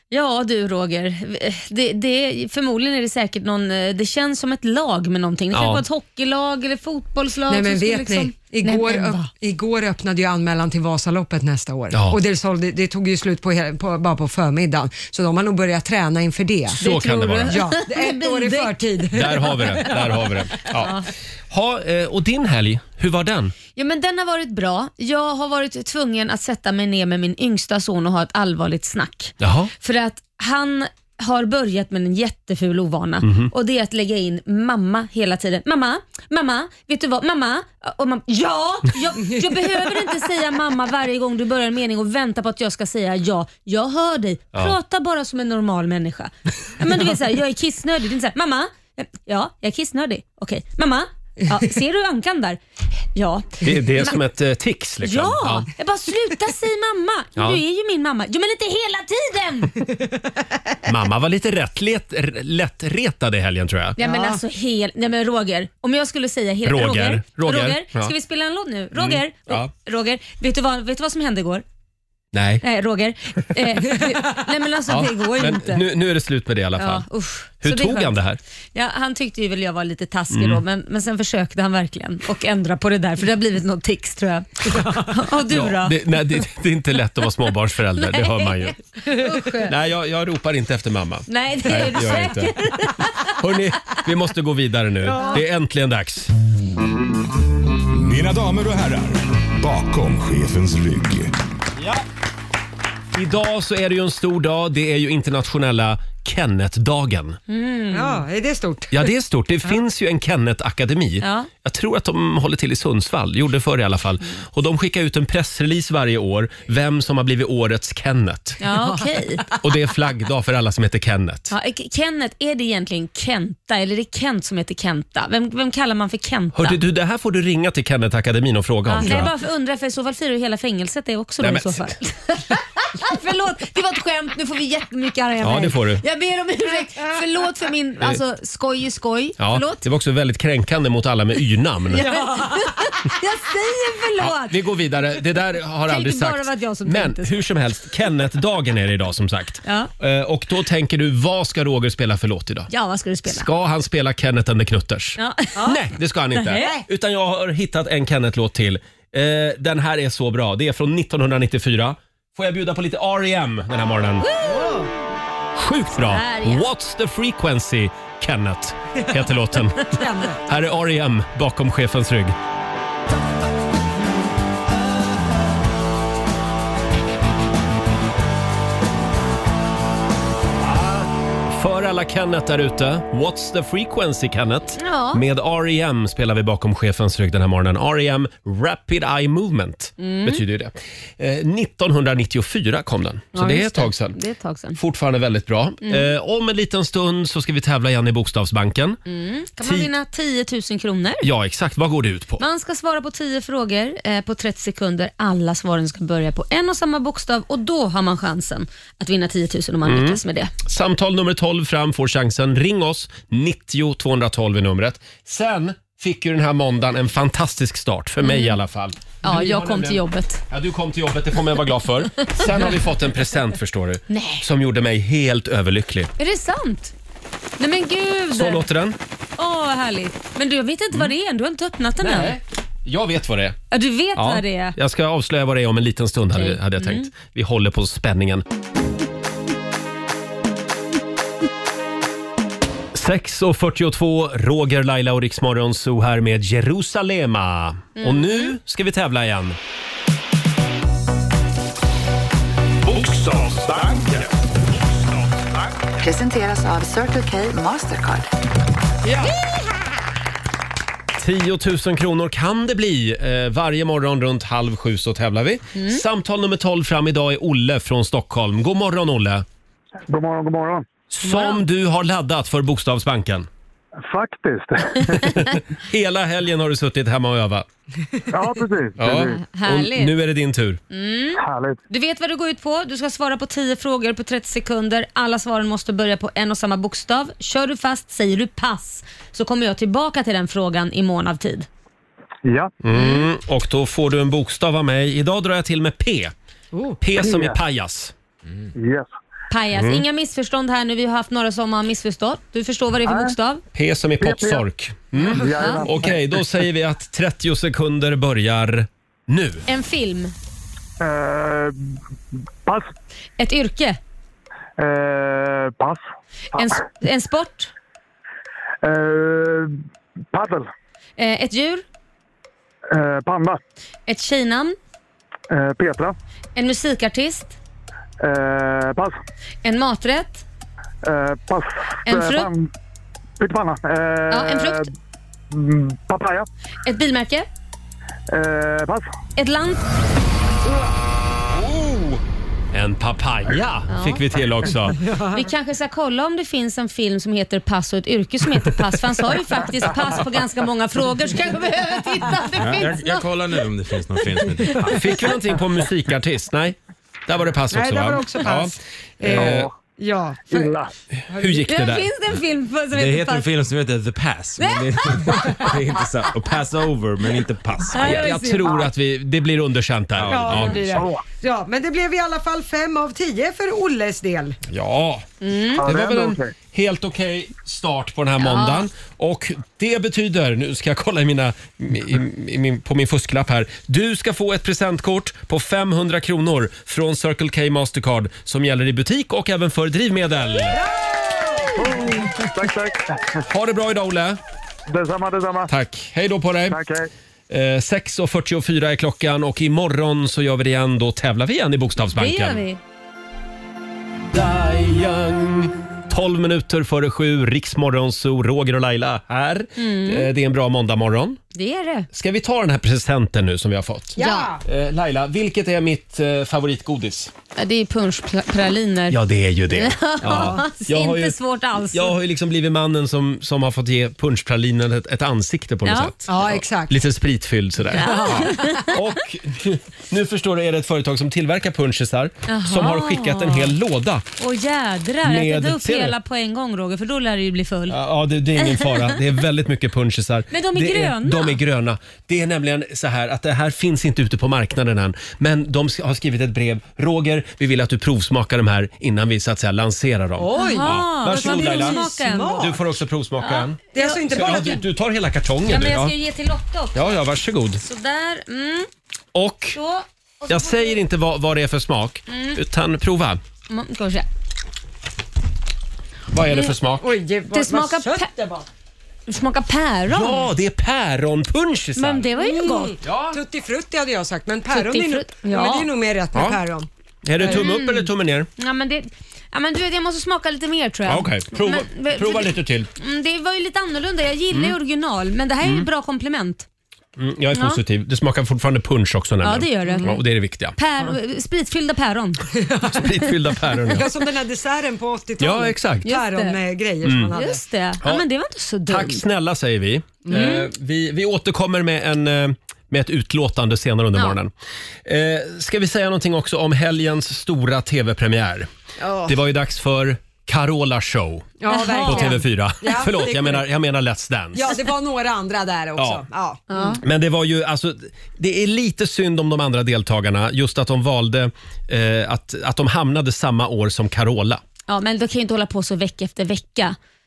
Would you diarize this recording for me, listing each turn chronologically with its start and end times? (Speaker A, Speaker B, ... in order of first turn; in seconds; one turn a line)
Speaker A: 0.1-9.3
Speaker B: 5.5-5.8
Speaker C: 7.5-16.8
Speaker B: 11.9-12.2
Speaker B: 16.8-17.7
Speaker A: 16.8-20.0
Speaker C: 17.5-20.3
Speaker B: 19.1-23.5
Speaker A: 20.8-21.1
Speaker A: 23.8-52.6
Speaker B: 29.4-29.7
Speaker B: 33.2-33.5
Speaker A: 53.1-54.2
Speaker B: 53.6-55.7
Speaker A: 55.0-59.8
Speaker B: 60.9-64.0
Speaker A: 64.0-71.6
Speaker C: 64.0-64.4
Speaker B: 66.7-68.1
Speaker B: 69.0-69.7
Speaker B: 72.3-72.6
Speaker A: 72.6-75.8
Speaker B: 74.9-77.1
Speaker A: 76.8-78.2
Speaker B: 77.6-78.4
Speaker A: 78.7-86.0
Speaker B: 80.3-80.6
Speaker B: 85.5-88.8
Speaker A: 88.0-89.7
Speaker B: 89.6-96.3
Speaker A: 91.3-93.3
Speaker C: 95.1-95.4
Speaker A: 95.1-95.4
Speaker D: 97.9-101.4
Speaker B: 103.1-107.4
Speaker A: 107.5-108.2
Speaker C: 107.9-109.1
Speaker B: 108.9-118.6
Speaker A: 111.2-111.5
Speaker A: 118.6-119.5
Speaker C: 118.8-119.6
Speaker B: 119.6-121.5
Speaker A: 121.5-126.8
Speaker B: 126.5-129.3
Speaker A: 128.9-139.8
Speaker C: 129.0-129.3
Speaker B: 131.4-131.9
Speaker B: 135.4-136.0
Speaker B: 139.4-142.2
Speaker A: 141.9-144.6
Speaker C: 142.1-142.5
Speaker B: 144.2-152.7
Speaker A: 145.9-147.4
Speaker A: 149.7-149.9
Speaker A: 152.7-153.5
Speaker B: 153.2-164.3
Speaker A: 155.2-155.7
Speaker A: 156.3-156.8
Speaker C: 156.5-156.8
Speaker A: 164.2-164.8
Speaker C: 164.4-164.9
Speaker B: 165.6-172.4
Speaker A: 165.9-166.7
Speaker C: 169.9-170.4
Speaker B: 180.6-194.2
Speaker A: 184.8-185.2
Speaker A: 190.0-190.4
Speaker A: 193.3-194.8
Speaker B: 194.8-199.0
Speaker A: 199.1-201.3
Speaker B: 199.6-199.9
Speaker B: 201.2-202.4
Speaker A: 202.4-210.5
Speaker B: 209.8-226.1
Speaker A: 218.2-218.6
Speaker A: 219.2-220.4
Speaker A: 222.3-222.7
Speaker A: 224.1-224.4
Speaker A: 226.2-226.9
Speaker A: 227.6-228.7
Speaker B: 228.3-229.0
Speaker A: 229.4-232.4
Speaker B: 232.0-233.6
Speaker A: 233.7-234.8
Speaker B: 234.2-238.4
Speaker A: 236.3-237.1
Speaker B: 242.9-249.6
Speaker A: 248.0-248.5
Speaker D: 252.8-255.7
Speaker E: 256.0-258.3
Speaker B: 259.0-259.3
Speaker B: 261.2-269.5
Speaker A: 265.8-266.0
Speaker F: 270.1-270.9
Speaker B: 271.1-273.5
Speaker A: 271.2-271.6
Speaker F: 274.0-275.5
Speaker B: 275.2-277.7
Speaker F: 278.3-279.4
Speaker B: 279.0-280.8
Speaker A: 279.1-280.1
Speaker A: 280.9-291.7
Speaker F: 281.4-281.8
Speaker F: 292.4-292.7
Speaker B: 292.8-296.3
Speaker C: 296.7-297.0
Speaker B: 297.0-298.1
Speaker F: 297.2-297.6
Speaker F: 298.8-299.1
Speaker A: 299.5-303.6
Speaker B: 299.7-300.0
Speaker F: 303.1-303.3
Speaker B: 303.8-309.7
Speaker F: 304.2-304.6
Speaker C: 305.3-305.8
Speaker F: 305.4-306.3
Speaker A: 309.7-310.4
Speaker F: 311.0-311.8
Speaker F: 312.6-312.9
Speaker A: 313.4-314.0
Speaker F: 314.8-316.8
Speaker A: 316.5-317.7
Speaker F: 318.8-319.8
Speaker F: 320.3-320.7
Speaker A: 321.2-321.9
Speaker F: 322.9-323.6
Speaker A: 324.1-324.8
Speaker F: 325.5-326.1
Speaker A: 326.6-327.6
Speaker F: 328.2-329.2
Speaker A: 329.6-330.4
Speaker F: 331.0-332.7
Speaker A: 332.1-332.5
Speaker F: 333.4-334.9
Speaker A: 334.3-334.9
Speaker F: 335.5-336.5
Speaker A: 336.9-337.5
Speaker F: 338.3-339.1
Speaker A: 339.4-339.8
Speaker B: 341.5-345.0
Speaker A: 343.9-344.2
Speaker C: 345.0-345.5
Speaker A: 345.3-353.3
Speaker G: 352.5-355.4
Speaker A: 354.4-354.9
Speaker B: 354.9-359.7
Speaker C: 357.7-360.8
Speaker F: 359.3-359.7
Speaker F: 360.5-360.9
Speaker B: 361.2-362.1
Speaker C: 361.3-361.6
Speaker A: 361.7-363.5
Speaker G: 362.9-368.2
Speaker A: 364.6-365.7
Speaker A: 367.9-368.7
Speaker B: 368.0-371.1
Speaker C: 368.1-368.8
Speaker G: 370.2-370.9
Speaker C: 370.3-374.6
Speaker F: 370.9-371.2
Speaker B: 374.7-375.3
Speaker A: 375.4-375.9
Speaker F: 375.8-376.5
Speaker B: 375.8-390.8
Speaker A: 378.4-378.9
Speaker C: 390.8-391.8
Speaker F: 391.8-393.4
Speaker B: 393.5-394.4
Speaker F: 394.9-395.7
Speaker B: 395.7-396.8
Speaker F: 396.7-397.1
Speaker B: 397.5-402.6
Speaker A: 402.1-402.8
Speaker B: 404.3-411.4
Speaker A: 409.8-410.3
Speaker A: 411.5-412.1
Speaker B: 412.1-417.3
Speaker C: 414.2-414.6
Speaker A: 414.2-414.5
Speaker A: 417.6-419.2
Speaker B: 419.1-421.4
Speaker A: 419.7-422.1
Speaker C: 420.2-420.6
Speaker B: 421.9-434.2
Speaker A: 425.9-426.1
Speaker C: 426.3-427.0
Speaker A: 427.9-429.0
Speaker C: 428.0-428.7
Speaker A: 432.5-433.7
Speaker A: 434.4-438.0
Speaker B: 435.2-436.2
Speaker B: 437.9-456.1
Speaker A: 438.6-439.2
Speaker A: 440.5-441.6
Speaker C: 450.4-452.8
Speaker A: 450.6-452.6
Speaker A: 453.4-454.8
Speaker C: 453.9-454.9
Speaker A: 455.7-457.0
Speaker B: 456.9-457.8
Speaker A: 457.8-458.9
Speaker B: 459.3-459.8
Speaker A: 459.7-461.0
Speaker B: 460.5-463.4
Speaker A: 462.3-462.6
Speaker A: 463.7-464.3
Speaker B: 466.3-467.0
Speaker A: 466.5-466.8
Speaker C: 467.0-468.6
Speaker A: 467.5-468.3
Speaker A: 469.3-470.5
Speaker B: 470.1-472.3
Speaker A: 472.0-472.9
Speaker C: 472.4-476.9
Speaker B: 473.0-473.4
Speaker A: 474.7-475.9
Speaker B: 476.4-476.6
Speaker B: 477.2-478.5
Speaker A: 477.4-486.7
Speaker B: 481.1-482.9
Speaker B: 487.2-491.1
Speaker A: 487.5-487.8
Speaker A: 489.4-490.2
Speaker C: 489.9-490.2
Speaker A: 490.8-492.4
Speaker C: 492.6-493.1
Speaker B: 492.9-494.1
Speaker C: 493.9-497.6
Speaker B: 495.4-496.1
Speaker A: 496.1-496.6
Speaker B: 497.0-497.4
Speaker A: 497.3-499.2
Speaker B: 498.9-504.5
Speaker C: 500.3-500.6
Speaker A: 500.3-500.7
Speaker B: 505.1-508.7
Speaker C: 509.0-509.3
Speaker B: 509.2-511.5
Speaker C: 511.6-513.6
Speaker A: 511.7-512.4
Speaker B: 512.0-514.8
Speaker C: 514.5-517.0
Speaker B: 516.0-516.2
Speaker A: 516.7-517.0
Speaker B: 517.0-524.6
Speaker A: 524.9-527.0